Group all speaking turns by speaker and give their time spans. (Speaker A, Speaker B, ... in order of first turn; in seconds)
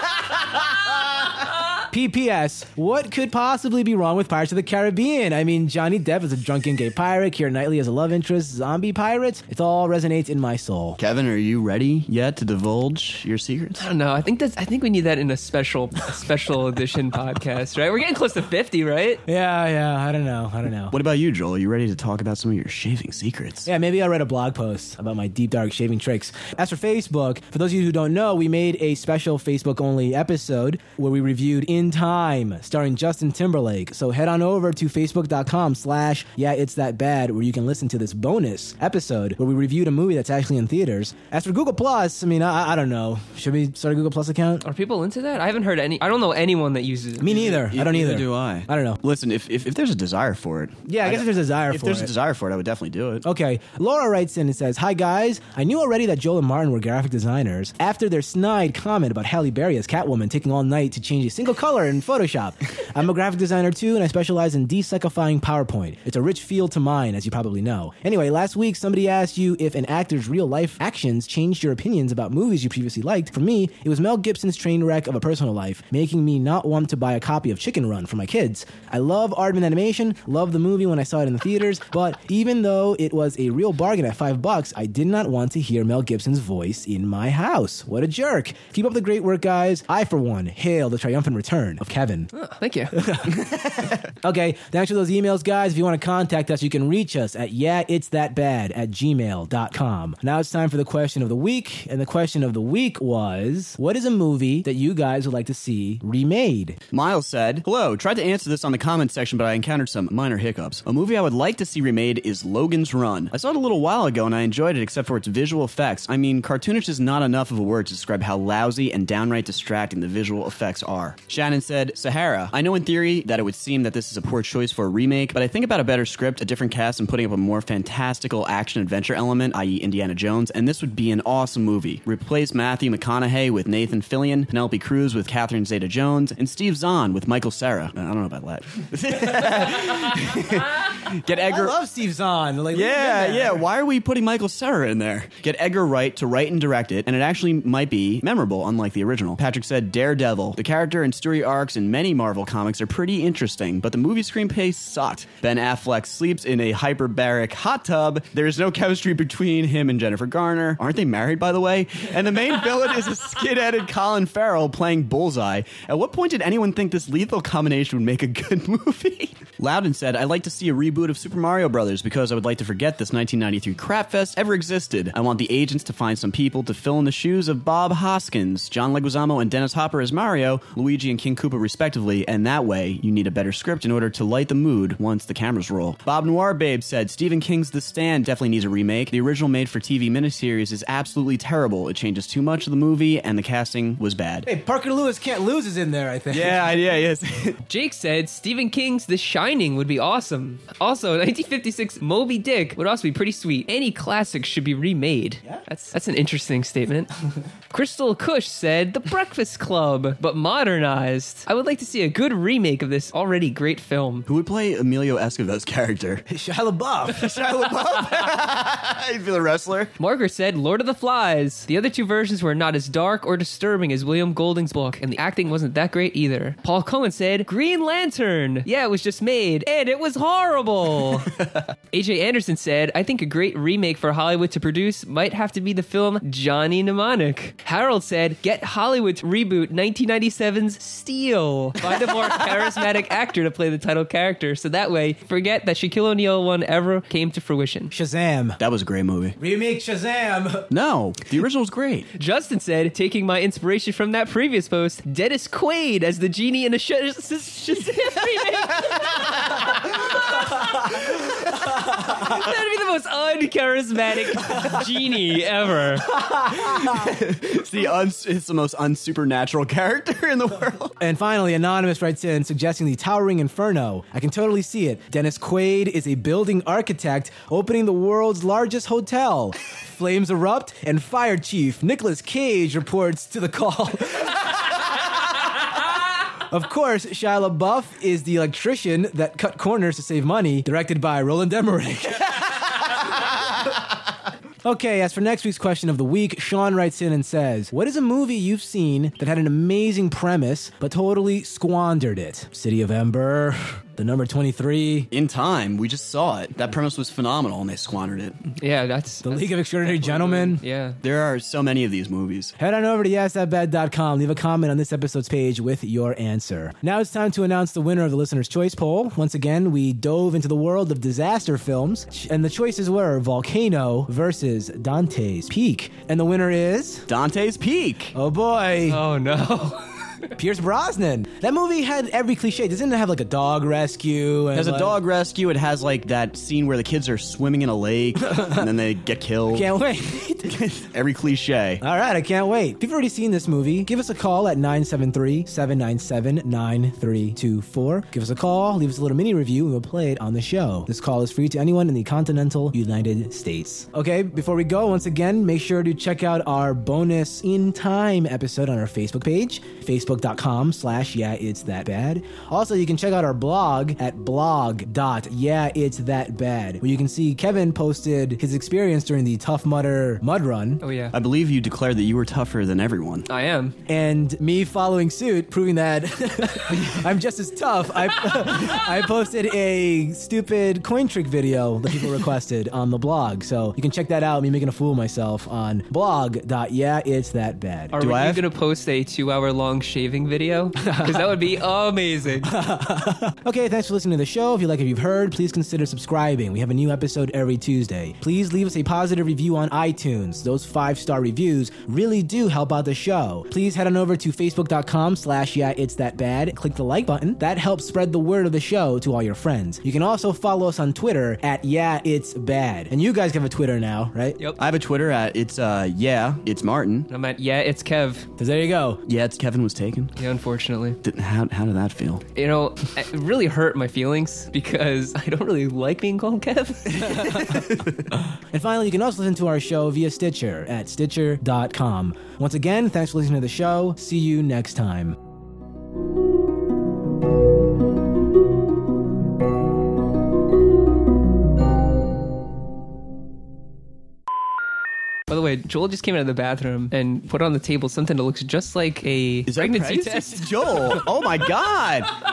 Speaker A: 1.9-11.0, 19.3-20.9, 23.7-44.6, 47.2-49.0, 50.9-52.1, 53.2-92.3, 93.0-106.8, 141.3-143.6, 194.5-196.6, 216.3-217.3, 247.9-248.6, 249.4-250.7, 266.2-266.9, 271.0-284.4, 286.5-292.8, 294.6-305.1, 309.3-310.6, 312.6-327.1, 328.1-329.0, 330.4-335.0, 338.3-338.6, 339.5-340.6, 341.8-370.8, 373.9-388.0, 392.5-414.4, 418.4-419.0, 427.0-427.6, 428.5-435.2
Speaker B: 11.0-13.9, 20.9-23.7, 47.3-53.2, 106.9-141.8, 142.7-194.5, 196.3-197.6, 214.3-216.2, 217.1-219.9, 248.6-249.4, 250.7-252.1, 266.6-270.9, 305.1-308.4, 311.0-312.6, 327.1-328.1, 334.5-339.7, 340.5-341.8, 371.1-373.3, 388.0-388.4, 414.6-417.1, 419.1-420.1, 421.0-422.2, 449.5-452.1
Speaker C: 13.8-19.2, 44.6-47.4, 92.3-93.0, 197.7-207.1, 207.7-214.3, 220.0-231.4, 231.9-247.9, 252.2-266.1, 308.6-311.0, 328.9-330.3, 370.8-371.1, 373.3-373.8, 387.9-392.6, 417.1-418.3, 420.2-421.0, 422.4-427.5, 445.3-451.1